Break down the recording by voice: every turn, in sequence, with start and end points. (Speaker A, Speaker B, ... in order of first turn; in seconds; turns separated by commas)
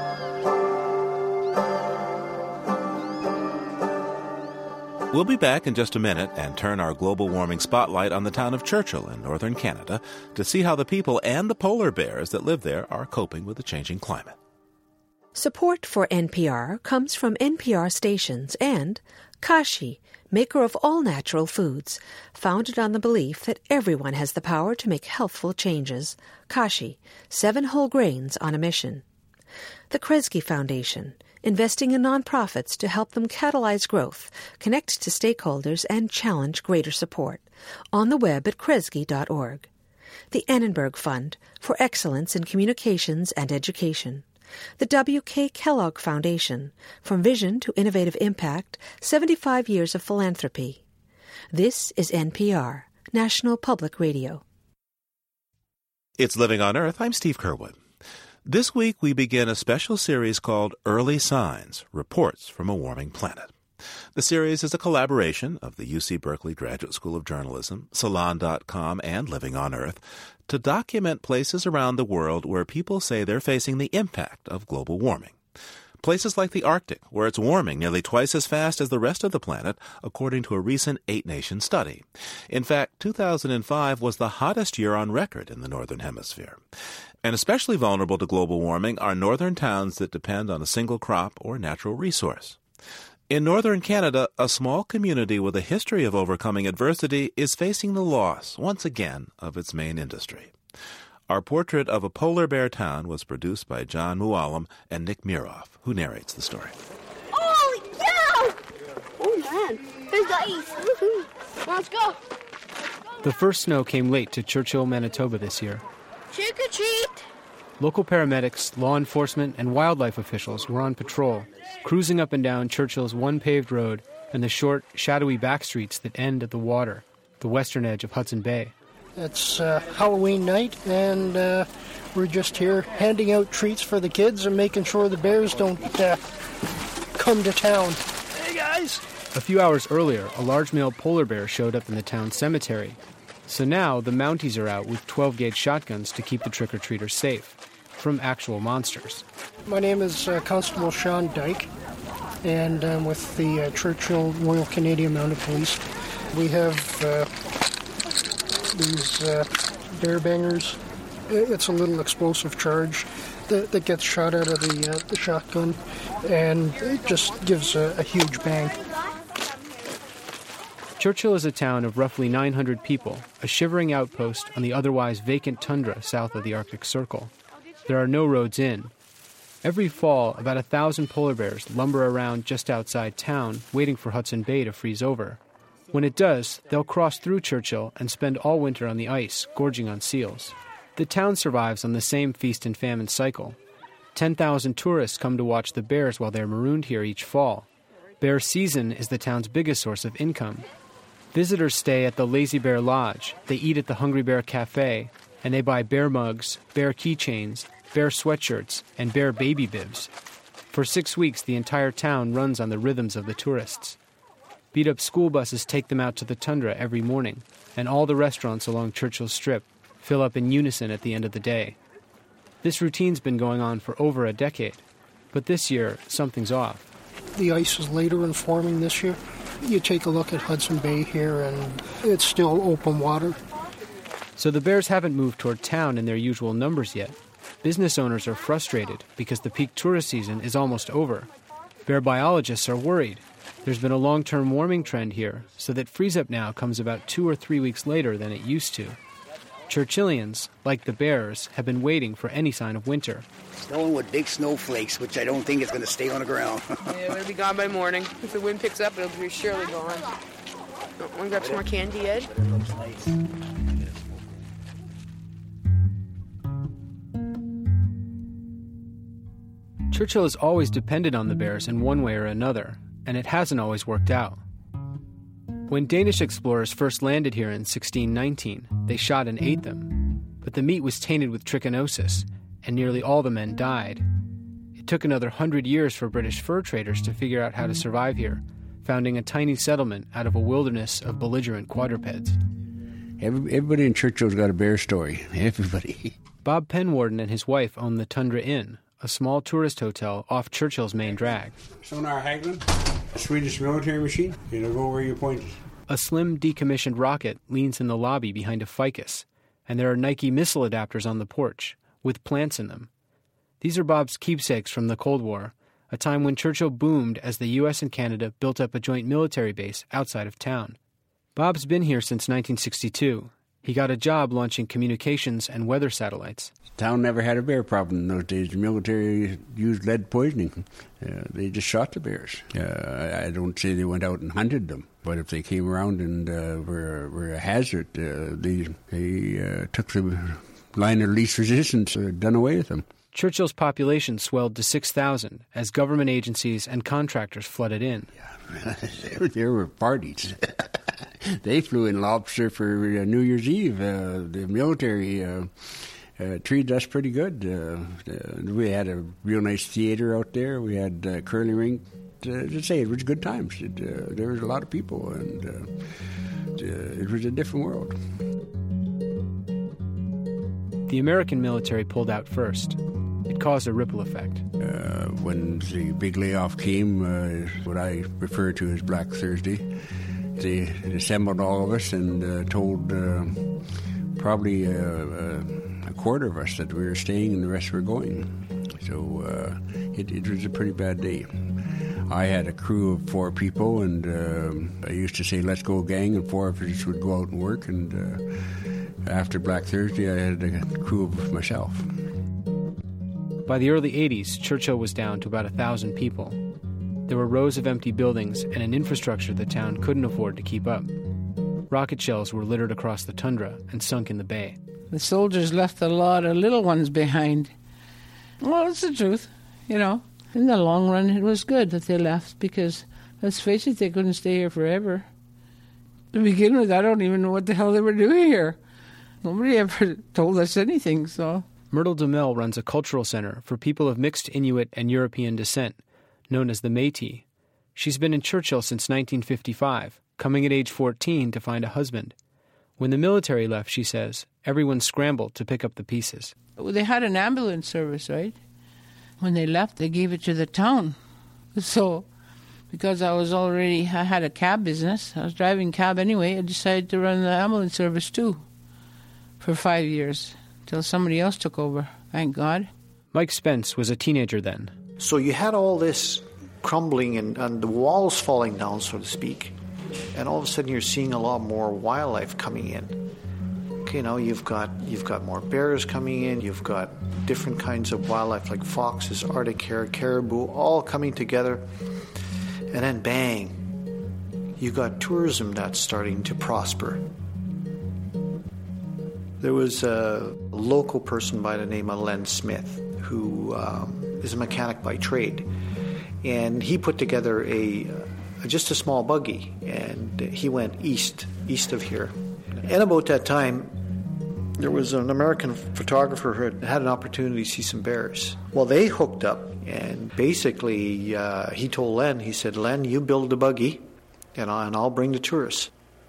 Speaker A: 5.1-14.3, Speaker B: 15.3-29.0, Speaker B: 29.9-39.7, Speaker B: 40.3-44.2, Speaker B: 44.8-50.8, Speaker B: 51.5-54.4, Speaker A: 56.2-57.8, Speaker A: 58.4-63.5, Speaker A: 64.1-75.4, Speaker A: 76.0-86.6, Speaker A: 87.2-92.6, Speaker A: 93.3-100.5, Speaker A: 101.3-106.7, Speaker C: 107.3-108.5, Speaker C: 109.2-112.2, Speaker D: 113.2-115.8, Speaker C: 116.3-117.2, Speaker D: 117.8-128.7, Speaker E: 129.2-136.2, Speaker E: 137.1-139.0, Speaker D: 139.3-149.2, Speaker E: 149.7-151.7, Speaker E: 152.4-157.3, Speaker E: 158.7-168.8, Speaker D: 171.0-177.3, Speaker D: 177.8-178.9, Speaker D: 179.6-185.4, Speaker D: 185.9-193.6, Speaker D: 194.1-197.7, Speaker D: 198.2-200.6, Speaker D: 201.3-210.1, Speaker D: 210.7-214.0, Speaker D: 214.7-221.8, Speaker D: 222.6-226.8, Speaker E: 227.3-233.4, Speaker D: 234.4-241.3, Speaker D: 241.8-249.0, Speaker D: 249.7-253.3, Speaker F: 253.6-257.1, Speaker G: 257.4-260.0, Speaker G: 261.2-261.9, Speaker F: 261.4-261.7, Speaker F: 262.2-263.2, Speaker F: 263.7-264.3, Speaker D: 269.9-274.4, Speaker D: 275.7-284.1, Speaker D: 284.8-292.4, Speaker H: 293.2-296.1, Speaker D: 296.4-301.6, Speaker H: 301.7-305.6, Speaker D: 305.9-312.9, Speaker D: 313.6-320.8, Speaker D: 321.4-326.5, Speaker H: 326.7-342.9, Speaker D: 343.1-348.1, Speaker H: 348.5-350.8, Speaker H: 351.4-368.0, Speaker D: 370.9-374.4, Speaker H: 374.6-379.7, Speaker H: 380.4-402.0, Speaker D: 403.4-406.4, Speaker D: 407.1-410.9, Speaker D: 411.7-414.6, Speaker I: 414.9-417.5, Speaker I: 418.4-425.1, Speaker I: 426.1-428.6, Speaker I: 429.2-431.4, Speaker D: 431.7-437.2, Speaker D: 437.8-442.1, Speaker D: 442.8-446.3, Speaker I: 446.6-448.4, Speaker I: 449.2-451.0, Speaker I: 451.5-452.1, Speaker I: 452.7-458.4, Speaker I: 459.4-462.7, Speaker D: 463.1-464.7, Speaker J: 465.0-469.6, Speaker J: 470.1-473.0, Speaker J: 473.8-481.7, Speaker J: 482.7-483.7, Speaker J: 484.6-487.0, Speaker J: 489.4-495.5, Speaker J: 496.2-503.8, Speaker J: 504.6-515.7